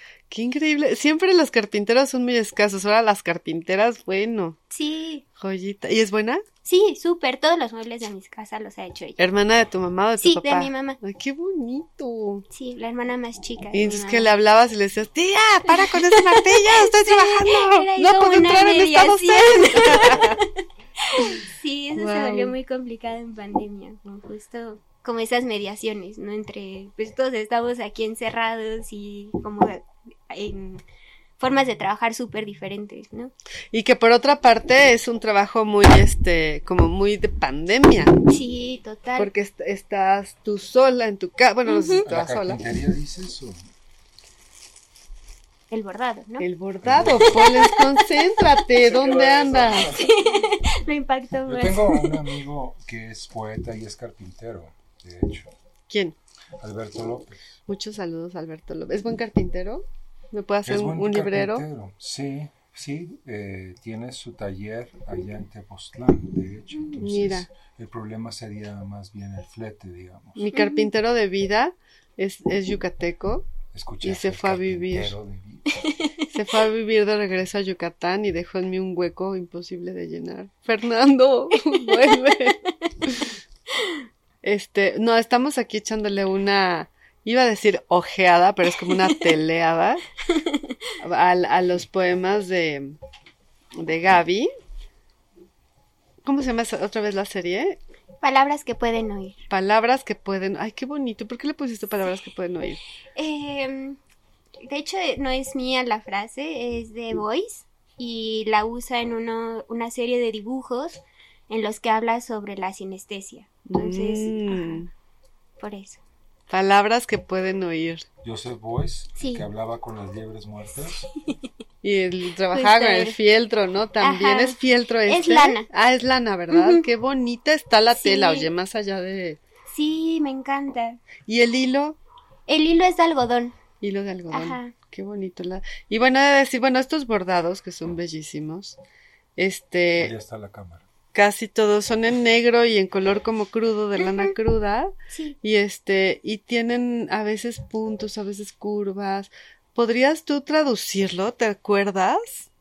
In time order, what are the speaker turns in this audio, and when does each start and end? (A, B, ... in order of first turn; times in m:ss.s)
0:00.3-0:04.6 A
0:04.7-0:05.2 B
0:05.4-0:06.4 A
0:06.6-0:09.2 B
0:09.2-0:12.4 A
0:10.2-0:11.0 B
0:12.5-0:14.3 B
0:13.7-0:20.4 A
0:15.7-0:20.4 B
0:21.0-0:30.8 B
0:21.9-0:22.5 A
0:31.4-0:33.3 B
0:33.7-0:38.2 A
0:38.2-0:39.3 B
0:39.2-0:42.6 A
0:41.7-0:42.0 B
0:42.0-0:43.6 C
0:45.7-0:46.5 B
0:46.4-0:50.0 A
0:46.8-0:47.5 C
0:47.4-0:48.0 B
0:49.9-0:52.3 B
0:51.5-0:55.5 C
0:55.9-0:56.2 A
0:56.6-0:57.6 C
0:57.7-1:01.6 A
1:00.6-1:10.4 C
1:07.0-1:07.5 A
1:10.4-1:13.5 A
1:10.5-1:10.8 B
1:13.7-1:15.8 C
1:14.0-1:15.1 A
1:15.9-1:16.2 B
1:16.3-1:23.2 A
1:24.4-1:30.0 A
1:30.3-1:30.9 B
1:31.0-1:33.0 A
1:33.8-1:34.5 A
1:36.2-1:37.8 A
1:38.2-1:39.4 B
1:39.5-1:42.8 A
1:43.2-1:44.0 B
1:44.6-1:51.0 B
1:51.5-1:54.8 B
1:53.7-1:54.9 A
1:55.6-1:56.0 B
1:56.5-1:58.0 A
1:58.2-2:01.1 C
1:59.2-1:59.4 B
2:01.8-2:09.4 A
2:02.5-2:03.2 B
2:04.0-2:04.6 B
2:05.1-2:05.6 B
2:06.5-2:06.8 B
2:07.9-2:08.5 B
2:09.7-2:11.0 B
2:11.2-2:12.0 A
2:12.5-2:13.6 B
2:13.8-2:18.8 A
2:14.3-2:14.7 B
2:19.4-2:20.1 A
2:20.0-2:20.8 C
2:21.1-2:32.5 A
2:24.0-2:24.3 B
2:25.1-2:25.3 B